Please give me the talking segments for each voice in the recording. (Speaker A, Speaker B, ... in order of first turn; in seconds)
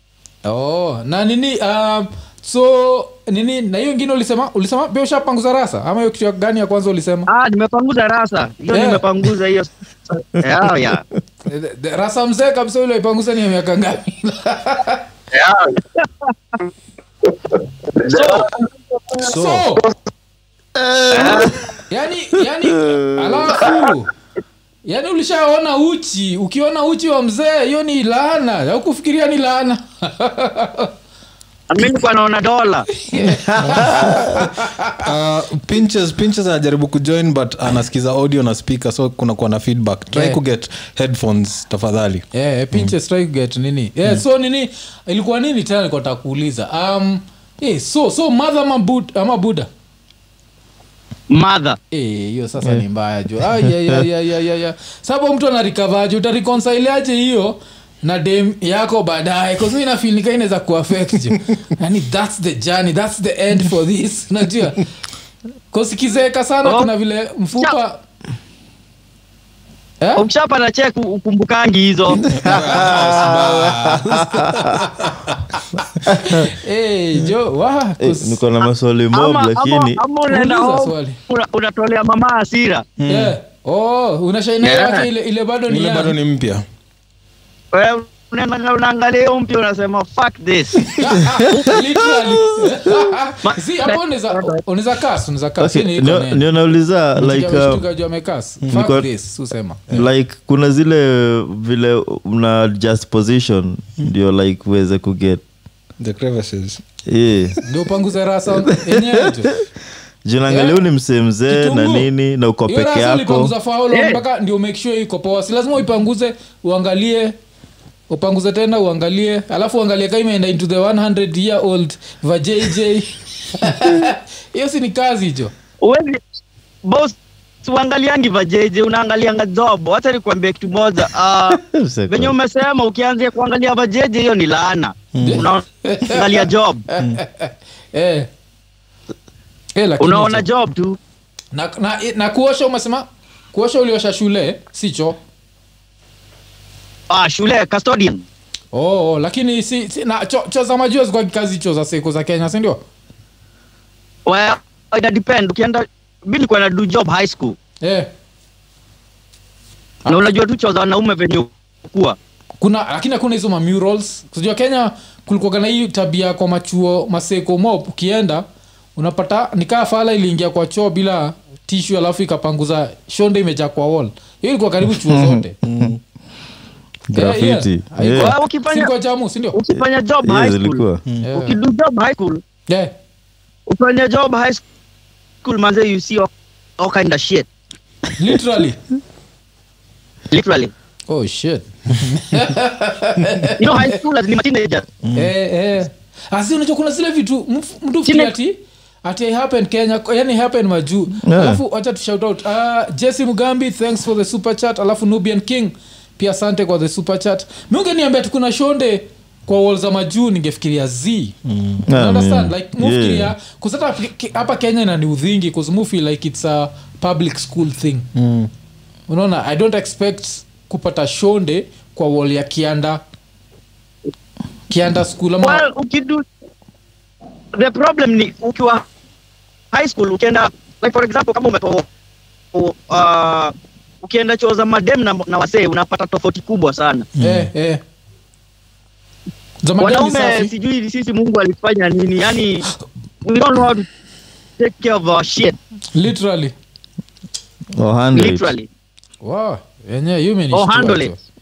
Speaker A: 0.5-7.3, 8.7-9.1, 11.5-15.1, 19.2-19.8, 21.9-24.1, 24.9-30.9, 33.0-35.1, 40.1-40.4, 42.3-49.7, 51.9-64.8, 65.7-68.0, 74.2-78.4, 80.3-81.2, 83.1-86.2, 91.0-96.4, 97.2-100.0, 107.7-109.5, 110.5-110.8, 111.5-112.1, 112.7-117.3, 118.1-125.5, 135.2-138.3, 139.8-140.5, 141.5-145.2, 148.7-152.8, 157.8-158.1, 162.6-168.4, 169.0-175.6, 177.1-179.6, 181.2-181.6, 188.2-188.8, 191.1-194.0, 195.2-211.4, 211.9-218.1, 219.1-223.0, 224.7-225.7, 237.2-237.8, 239.6-240.5, 245.9-246.5, 249.2-251.2
Speaker B: 7.3-11.0, 15.3-16.6, 17.9-18.6, 21.1-21.5, 31.7-32.9, 51.3-51.8, 66.6-66.9, 70.2-73.8, 79.1-82.9, 84.6-85.1, 87.7-90.9, 93.4-94.6, 113.9-114.2, 125.8-126.2, 126.8-136.8, 140.0-141.0, 147.1-148.2, 154.3-157.6, 160.1-162.2, 178.2-178.9, 179.5-182.4, 183.7-184.6, 185.4-187.5, 190.3-190.7, 193.6-194.9, 198.1-198.3, 225.4-226.2, 227.5-228.8, 229.7-231.9, 232.5-237.1, 239.8-242.7, 243.2-243.9, 244.6-245.6, 248.1-248.7, 250.5-251.1
Speaker C: 19.3-19.6, 33.6-42.3, 72.3-75.4, 83.0-83.3, 85.7-86.7, 98.6-99.0, 106.0-106.8, 135.1-135.4, 175.6-176.0, 195.1-195.3, 211.5-211.8, 218.1-218.5, 237.2-237.5
Speaker D: 20.8-21.6, 22.8-23.8, 33.6-34.1, 72.5-73.4, 74.1-74.6, 76.1-76.5, 78.0-80.0, 95.6-97.8, 98.7-99.1, 99.9-105.4, 107.1-107.6, 108.7-109.7, 110.2-113.5, 131.5-132.4, 175.1-175.9, 177.1-178.4, 180.2-181.0, 201.2-201.6, 211.9-213.3, 247.8-248.5